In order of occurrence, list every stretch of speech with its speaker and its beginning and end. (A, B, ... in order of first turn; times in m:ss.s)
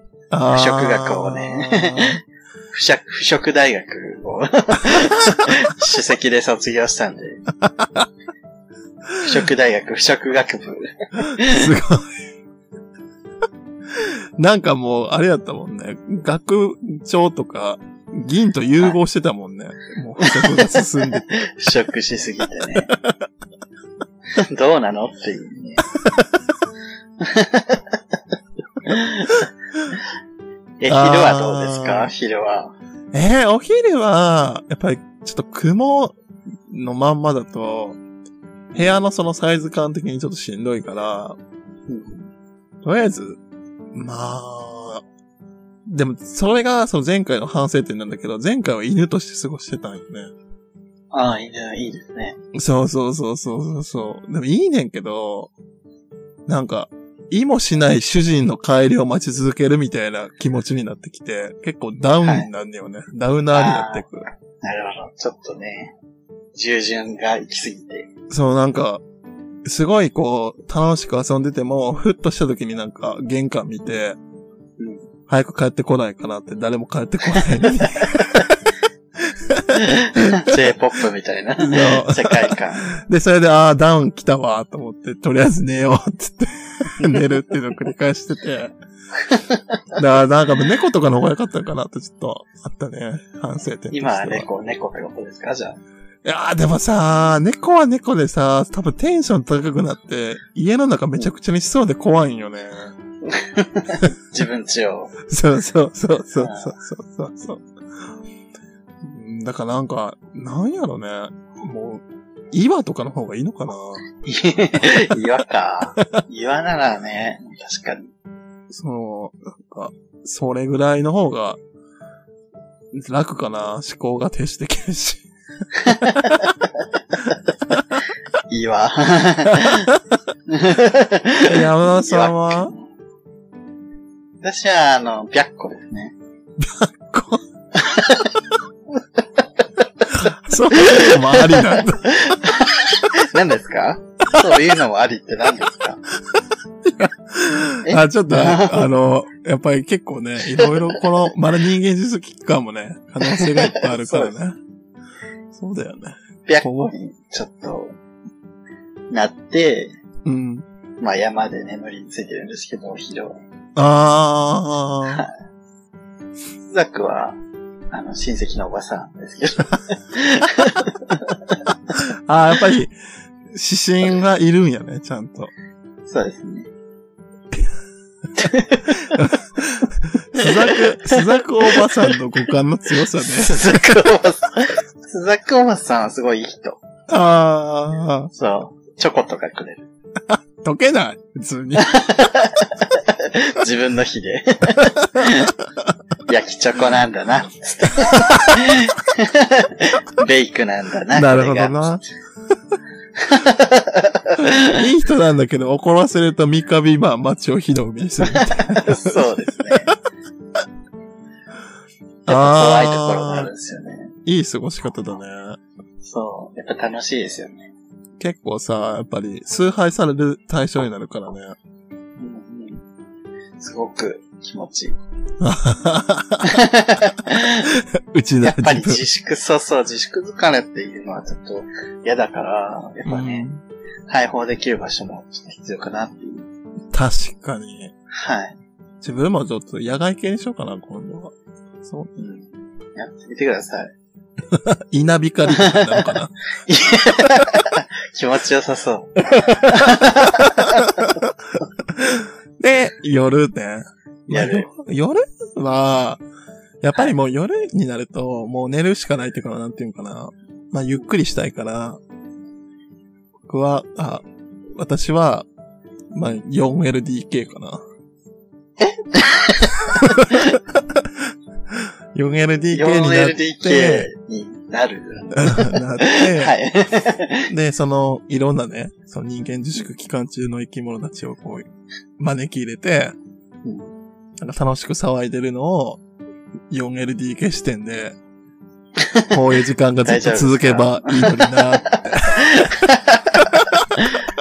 0:00.3-0:02.2 A
0:00.5-0:02.2 B
0:02.7-0:07.4 B
0:07.6-0:08.1 A
0:09.2-0:11.7 B
0:11.3-0:12.2 A
0:14.4-0:21.3 A
0:20.2-0:22.9 B
0:22.9-0:23.2 A
0:24.4-0:25.8 B
0:27.2-0:28.0 B
0:28.8-0:29.5 B
0:30.8-0:32.8 B
0:30.9-0:32.1 A
0:33.1-0:36.2 A
0:36.7-0:38.0 A
0:38.7-0:39.0 B
0:38.7-0:41.4 A
0:41.9-0:42.3 B
0:42.8-0:43.4 A
0:43.9-0:45.0 A
0:45.9-0:50.3 A
0:51.1-0:52.4 B
0:52.5-0:55.5 A
0:56.5-1:04.2 A
1:02.2-1:02.5 B
1:03.5-1:04.1 B
1:04.6-1:06.0 B
1:06.5-1:08.1 B
1:08.3-1:09.0 A
1:09.6-1:14.2 A
1:14.8-1:15.1 B
1:15.3-1:18.6 A
1:18.0-1:18.3 B
1:19.3-1:20.6 A
1:19.8-1:22.9 B
1:21.6-1:28.7 A
1:29.2-1:29.6 B
1:30.0-1:34.5 A
1:33.9-1:35.8 B
1:36.2-1:42.9 A
1:43.3-1:45.2 B
1:45.3-1:47.6 A
1:46.4-1:46.7 B
1:49.0-1:54.0 A
1:54.2-1:58.1 B
1:56.0-1:56.2 A
1:58.7-2:01.6 A
2:02.9-2:05.2 A
2:05.8-2:06.8 B
2:05.9-2:06.4 A
2:07.7-2:08.0 A
2:08.5-2:09.9 B
2:10.5-2:12.9 B
2:11.5-2:12.7 A
2:14.4-2:16.2 B
2:16.6-2:17.4 A
2:17.8-2:18.3 B
2:20.1-2:22.4 A
2:20.8-2:26.0 B
2:26.4-2:34.6 A
2:27.8-2:28.9 B
2:30.5-2:31.0 B
2:33.2-2:34.4 B
2:35.5-2:36.9 A
2:36.5-2:37.9 B
2:39.1-2:40.0 B
2:40.2-2:40.6 A
2:41.0-2:43.4 B
2:43.8-2:45.2 A
2:46.7-2:47.4 B
2:47.9-2:51.6 B
2:52.3-2:53.0 A
2:53.5-2:55.5 A
2:56.1-2:56.7 B
2:58.4-2:59.3 B
2:59.2-3:04.0 A
3:00.4-3:02.2 B
3:03.1-3:06.8 B
3:07.1-3:08.3 A
3:08.3-3:09.9 B
3:10.3-3:11.9 A
3:11.8-3:15.6 B
3:16.3-3:22.0 B
3:21.1-3:22.0 A
3:23.2-3:24.8 B
3:24.6-3:29.8 A
3:28.2-3:29.9 B
3:32.3-3:33.5 A
3:32.3-3:34.1 B
3:34.3-3:35.6 A
3:36.0-3:37.7 B
3:38.2-3:41.6 A
3:42.2-3:42.8 B
3:43.6-3:45.0 B
3:45.4-3:46.6 A
3:46.5-3:47.7 B
3:47.7-3:49.0 A
3:48.4-3:53.5 B
3:53.1-3:53.6 A
3:54.1-3:56.5 B
3:56.9-3:57.9 A
3:58.1-3:58.6 B
3:59.0-4:02.2 A
4:02.2-4:03.9 B
4:04.5-4:06.4 A
4:05.5-4:11.1 B
4:09.3-4:11.1 A
4:12.0-4:16.2 A
4:14.3-4:14.7 B
4:16.8-4:22.0 A
4:23.5-4:24.2 A
4:24.8-4:25.5 A
4:26.1-4:27.8 A
4:28.8-4:30.5 B
4:30.0-4:31.1 A
4:31.7-4:34.1 A
4:32.7-4:37.5 B
4:35.4-4:36.6 A
4:37.5-4:41.7 A
4:42.2-4:43.2 A
4:43.6-4:43.9 B
4:44.4-4:46.0 A
4:46.7-4:48.2 A
4:49.0-4:49.3 B
4:49.3-4:52.7 A
4:50.0-4:54.2 B
4:53.4-4:53.8 A